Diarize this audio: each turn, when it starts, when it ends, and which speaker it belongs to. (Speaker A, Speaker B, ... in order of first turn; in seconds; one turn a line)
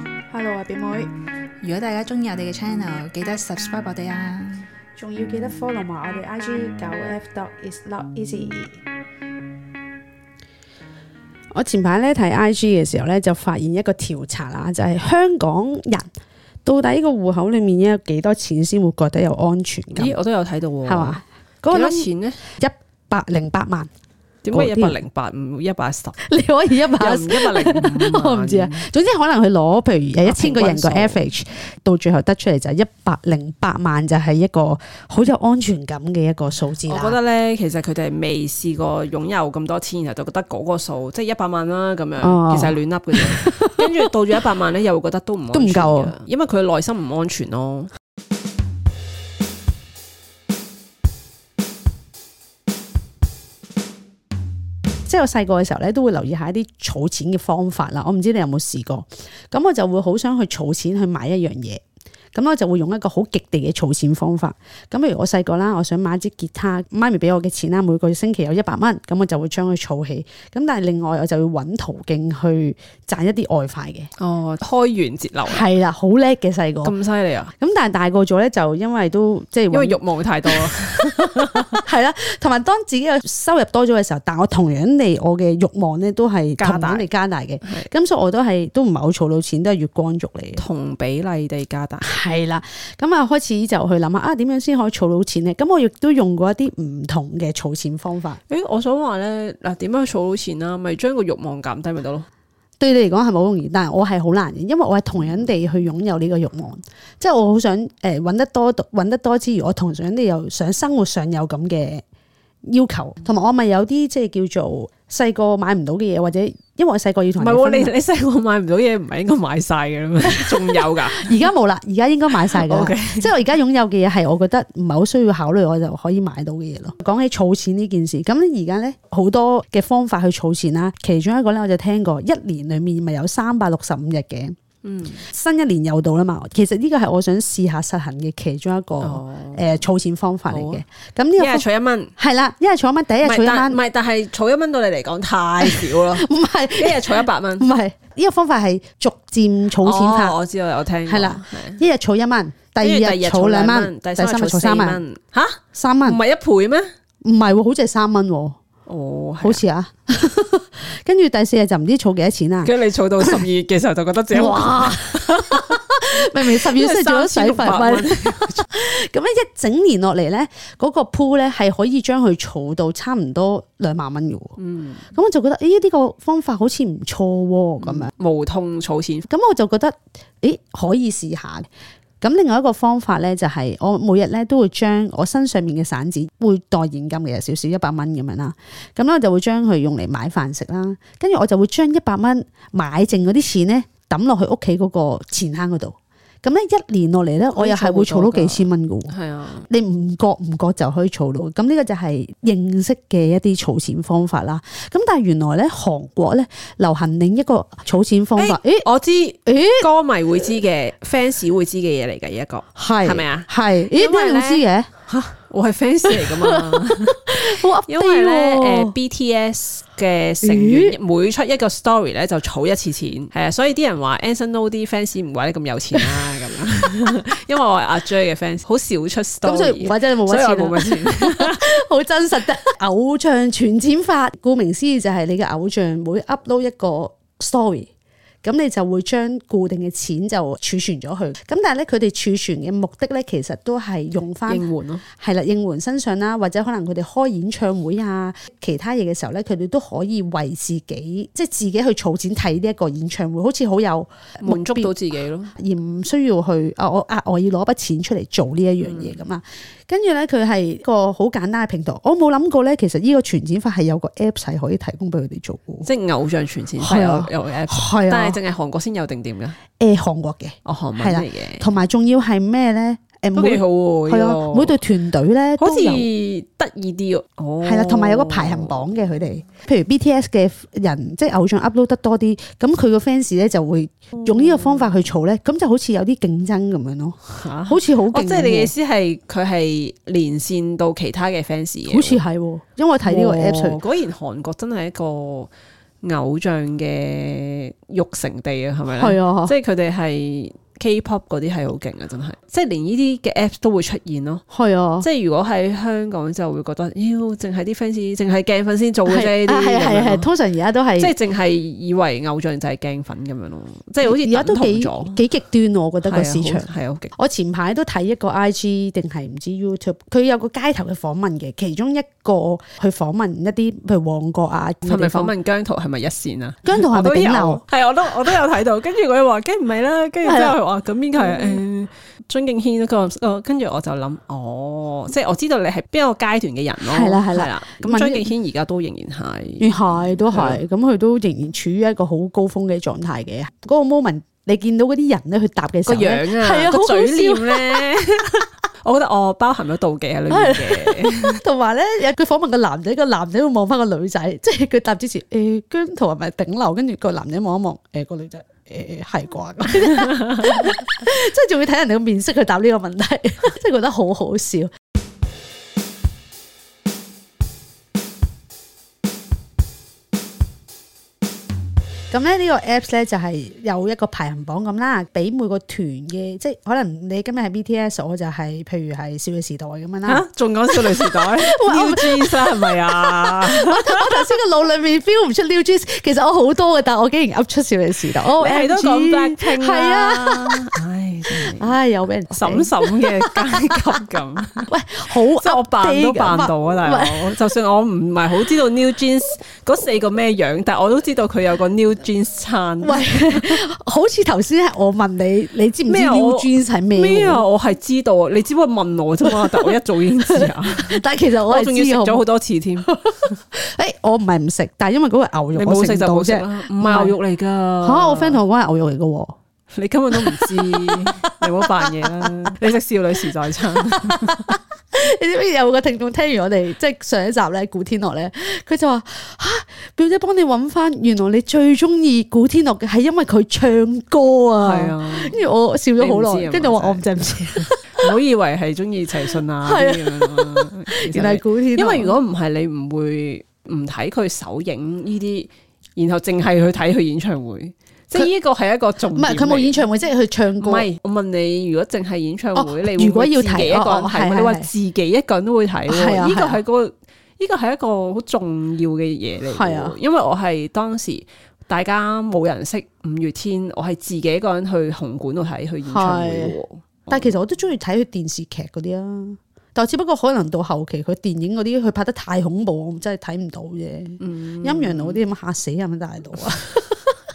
Speaker A: 0.3-1.1
Speaker B: 1.6-4.7
Speaker A: 5.0-8.8
Speaker A: 11.5-16.1
Speaker A: 16.6-20.2
Speaker C: 19.9-22.4
Speaker A: 20.9-23.9
Speaker C: 24.4-26.2
Speaker A: 24.5-25.0
Speaker A: 26.2-37.2
Speaker C: 26.9-28.9
Speaker C: 30.2-31.2
Speaker C: 36.9-47.9
Speaker A: 42.2-44.1
Speaker A: 45.5-46.2
Speaker A: 55.1-61.8
Speaker A: 62.3-74.1
Speaker C: 74.2-75.7
Speaker A: 75.5-76.9
Speaker C: 76.8-77.5
Speaker A: 77.6-90.6
Speaker C: 79.7-81.8
Speaker C: 86.6-87.1
Speaker C: 90.6-92.2
Speaker A: 92.0-98.4
Speaker C: 98.5-102.3
Speaker A: 102.8-112.0
Speaker A: 112.7-117.9
Speaker C: 117.4-121.4
Speaker A: 120.2-134.6
Speaker C: 122.3-123.3
Speaker C: 134.8-135.3
Speaker A: 135.2-141.7
Speaker C: 139.0-139.7
Speaker C: 140.5-140.8
Speaker C: 141.4-142.1
Speaker A: 142.2-143.8
Speaker C: 143.2-147.7
Speaker A: 145.6-150.4
Speaker C: 149.8-151.8
Speaker A: 151.1-155.0
Speaker C: 152.8-156.9
Speaker A: 155.7-156.2
Speaker A: 157.2-158.6
Speaker C: 158.9-159.6
Speaker A: 159.4-163.5
Speaker C: 162.6-168.7
Speaker A: 164.3-174.6
Speaker C: 174.6-175.0
Speaker A: 175.1-178.1
Speaker C: 177.8-179.3
Speaker A: 179.3-181.7
Speaker A: 182.2-199.1
Speaker C: 197.5-199.7
Speaker A: 199.7-208.9
Speaker C: 208.4-214.6
Speaker A: 209.5-209.9
Speaker A: 212.8-215.3
Speaker C: 215.3-231.8
Speaker A: 216.1-219.0
Speaker A: 220.4-221.0
Speaker A: 226.0-226.2
Speaker A: 229.4-237.9
Speaker A: 238.4-254.9
Speaker C: 244.5-245.1
Speaker C: 254.4-255.5
Speaker A: 255.6-265.9
Speaker C: 258.8-259.2
Speaker C: 265.8-269.6
Speaker A: 266.8-268.4
Speaker A: 269.8-276.1
Speaker C: 270.6-271.7
Speaker C: 273.4-274.8
Speaker C: 275.6-278.9
Speaker A: 277.6-288.7
Speaker C: 284.2-285.1
Speaker C: 287.4-292.2
Speaker A: 291.9-293.8
Speaker C: 293.1-304.4
Speaker A: 298.9-299.6
Speaker A: 304.5-305.1
Speaker C: 305.0-310.3
Speaker A: 309.1-311.1
Speaker C: 311.0-315.2
Speaker A: 314.0-325.3
Speaker C: 316.0-317.1
Speaker C: 324.9-340.6
Speaker A: 326.6-327.6
Speaker A: 330.2-330.6
Speaker A: 331.2-331.6
Speaker A: 336.8-338.3
Speaker A: 339.6-348.0
Speaker C: 345.9-351.4
Speaker A: 350.3-364.7
Speaker A: 372.1-390.7
Speaker C: 380.1-384.1
Speaker C: 388.3-391.8
Speaker A: 391.3-394.0
Speaker C: 392.3-403.6
Speaker A: 394.7-397.5
Speaker A: 402.8-407.5
Speaker C: 405.9-412.9
Speaker A: 409.2-412.3
Speaker A: 412.8-417.2
Speaker C: 415.5-418.4
Speaker A: 417.8-419.4
Speaker C: 419.7-424.6
Speaker A: 420.1-422.3
Speaker A: 423.8-438.2
Speaker C: 434.6-435.4
Speaker C: 436.0-449.8
Speaker A: 439.3-442.2
Speaker A: 449.1-450.9
Speaker C: 450.6-467.4
Speaker A: 452.6-454.7
Speaker A: 455.9-456.6
Speaker A: 459.5-460.0
Speaker A: 465.9-466.6
Speaker A: 467.1-477.2
Speaker C: 474.2-475.2